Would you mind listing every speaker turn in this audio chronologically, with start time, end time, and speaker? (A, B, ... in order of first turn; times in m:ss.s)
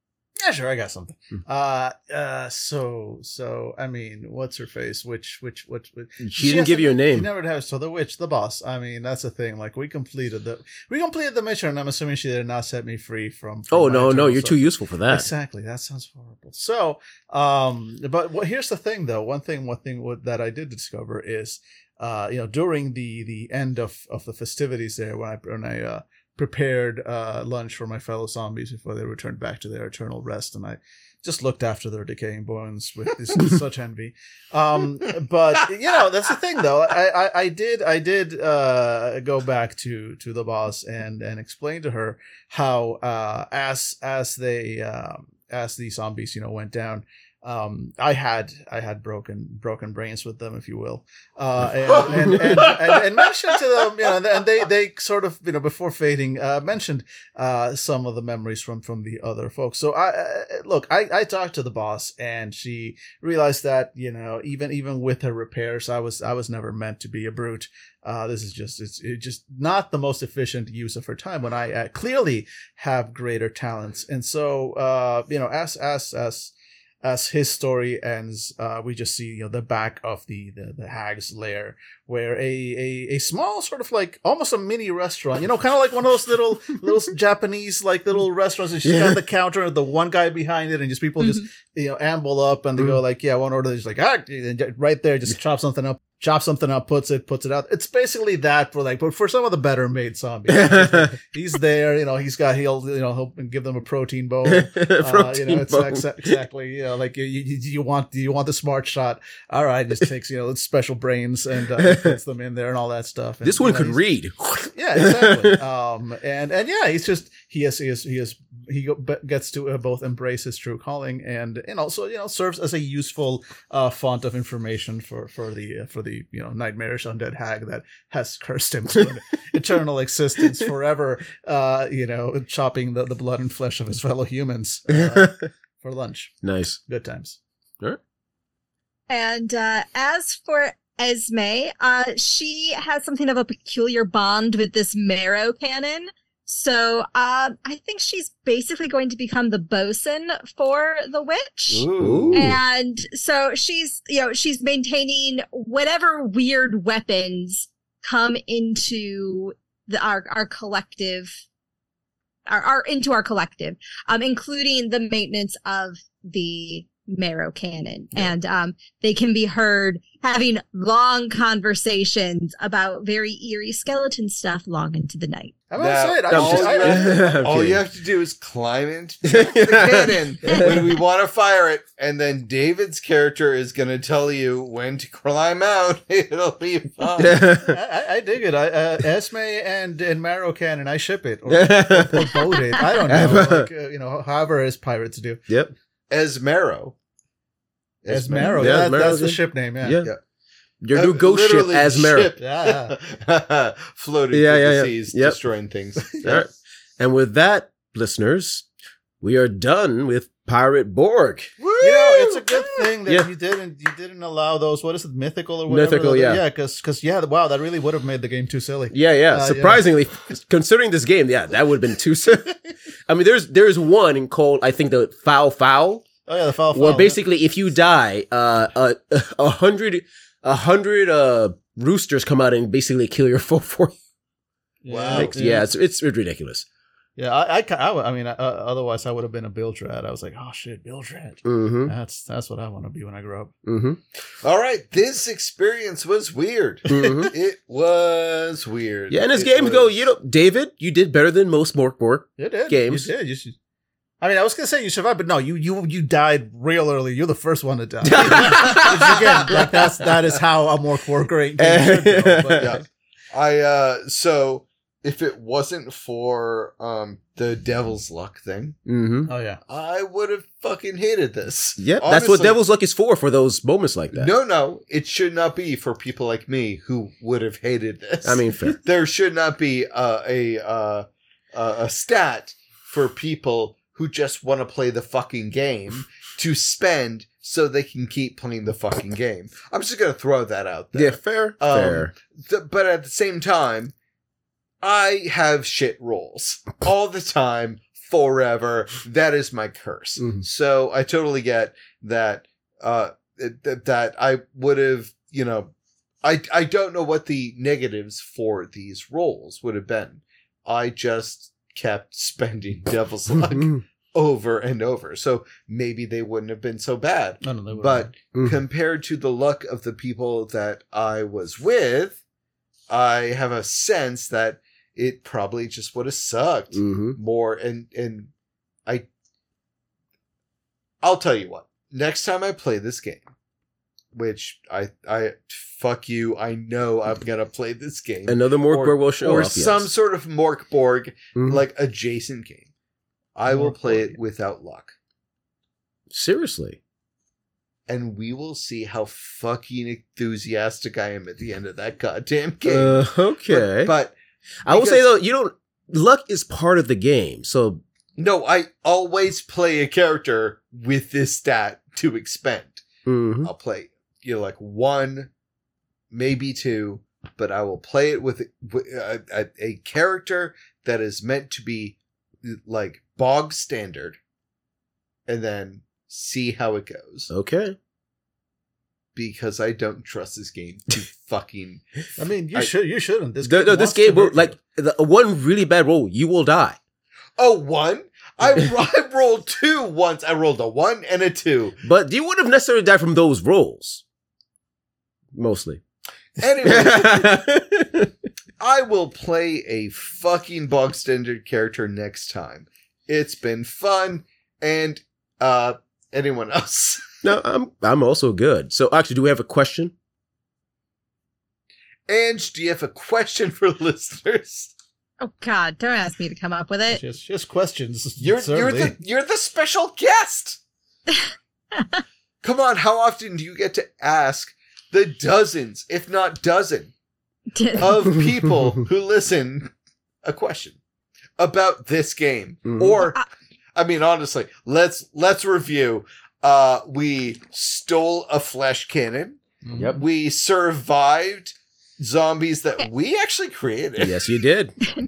0:00.4-1:54.0 A
0:06.2-0:07.3 B
0:13.7-0:15.3 B
0:52.0-0:53.0 C
1:28.8-1:29.2 B
1:40.5-1:41.2 B
1:44.4-1:46.4 B
1:51.8-1:52.2 B
1:53.4-1:55.6 B
1:54.7-2:16.3 A
2:14.9-2:15.5 B
2:16.4-2:16.8 B
2:16.8-2:17.4 A
2:19.1-2:41.4 D
2:31.7-2:32.5 C
2:32.0-2:32.6 B
2:42.5-2:55.6 D
2:55.7-2:57.5 A
2:55.8-3:07.5 C
2:56.3-2:57.8 B
2:59.3-3:00.9 B
3:07.2-3:07.8 B
3:07.6-3:15.4 A
3:11.5-3:13.7 B
3:15.5-3:15.7 B
3:16.1-3:16.9 C
3:18.0-3:19.0 C
3:18.1-3:20.0 A
3:18.6-3:20.1 B
3:20.8-3:22.3 B
3:20.9-3:26.5 C
3:22.4-3:23.0 A
3:24.3-3:25.4 B
3:26.2-3:28.6 B
3:29.2-3:31.6 B
3:31.6-3:32.2 C
3:31.8-3:39.8 A
3:35.7-3:36.4 B
3:38.9-3:42.5 B
3:43.1-3:46.0 B
3:46.2-3:47.2 A
3:46.7-3:54.0 B
3:54.8-3:55.7 A
3:54.9-3:55.4 C
3:55.1-3:56.6 B
3:57.2-4:03.5 A
4:01.4-4:01.9 B
4:03.6-4:04.0 B
4:04.4-4:10.0 C
4:06.9-4:07.3 B
4:09.1-4:13.1 B
4:12.4-4:13.5 A
4:14.2-4:22.8 A
4:18.0-4:19.5 B
4:18.9-4:19.5 C
4:21.6-4:22.8 B
4:22.6-4:28.8 C
4:28.8-4:29.3 B
4:29.3-4:29.6 A
4:29.7-4:32.6 C
4:31.8-4:34.3 B
4:34.1-4:53.9 C
4:38.2-4:38.8 B
4:50.9-4:52.1 B
4:54.8-5:22.2 C
5:00.2-5:00.4 B
5:17.4-5:18.2 A
5:18.3-5:18.6 B
5:22.9-5:28.3 C
5:26.7-5:27.2 B
5:31.0-5:33.3 C
5:34.1-5:42.7 C
5:38.2-5:39.9 B
5:41.3-5:41.6 B
5:43.3-5:44.9 C
5:43.5-5:44.2 A
5:46.1-5:46.8 B
5:47.9-5:54.1 C
5:52.6-5:53.9 B
5:54.7-5:57.8 B
5:54.7-5:55.1 C
5:58.2-6:02.8 C
6:03.0-6:03.5 B
6:03.4-6:05.3 C
6:06.1-6:14.2 C
6:15.3-6:17.3 C
6:17.3-6:17.8 B
6:19.1-6:21.8 C
6:22.2-6:24.6 A
6:23.4-6:26.8 B
6:27.4-6:31.8 C
6:31.8-6:34.0 B
6:35.3-6:35.8 B
6:36.4-6:37.4 C
6:36.6-6:38.1 B
6:38.6-6:47.0 C
6:47.2-6:49.9 B
6:52.1-6:54.7 C
6:55.2-6:57.0 D
6:56.9-6:59.0 A
6:58.2-7:00.6 C
7:01.7-7:02.0 D
7:02.4-7:06.9 C
7:07.5-7:07.9 D
7:07.8-7:09.7 C
7:10.2-7:10.8 C
7:11.4-7:13.2 C
7:12.6-7:13.0 B
7:13.8-7:19.4 C
7:19.6-7:20.0 A
7:19.7-7:20.0 B
7:19.9-7:24.2 C
7:24.0-7:24.7 B